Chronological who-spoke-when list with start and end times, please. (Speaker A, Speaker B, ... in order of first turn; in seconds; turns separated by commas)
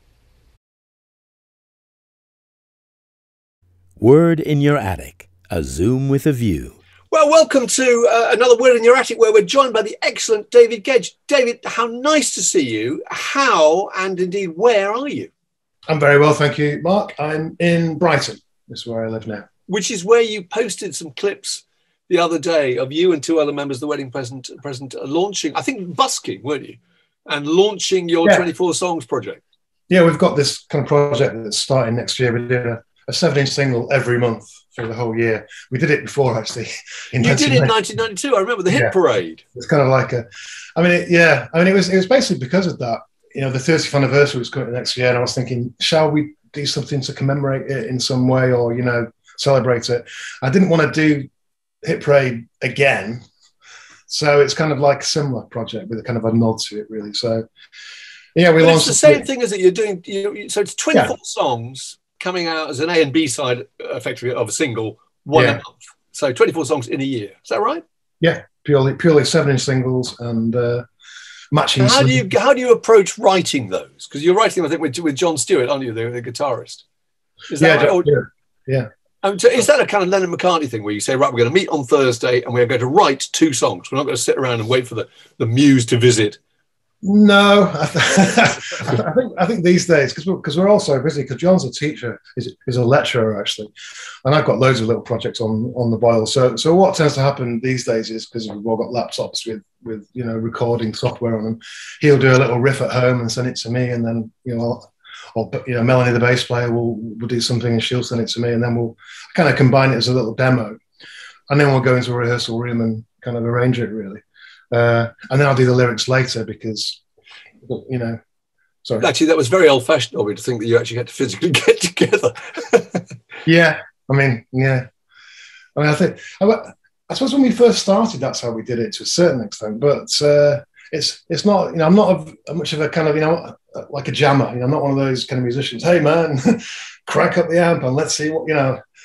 Speaker A: 4.0-6.7, Speaker B: 7.1-15.3, Speaker C: 15.9-19.5, Speaker B: 19.7-29.4, Speaker C: 29.9-37.8, Speaker B: 37.2-39.4, Speaker C: 39.5-40.2, Speaker C: 40.8-51.3, Speaker C: 51.8-53.2, Speaker C: 54.1-57.5, Speaker C: 58.3-59.2, Speaker B: 58.6-67.8, Speaker C: 65.3-65.6, Speaker C: 68.2-70.8, Speaker C: 71.5-72.3, Speaker B: 71.8-76.8, Speaker B: 77.5-78.1, Speaker C: 77.6-78.9, Speaker B: 79.2-86.4, Speaker C: 87.0-93.7, Speaker C: 94.2-110.8, Speaker C: 111.5-117.0, Speaker C: 117.6-118.2, Speaker B: 119.0-123.1, Speaker C: 123.5-124.9, Speaker C: 125.8-138.8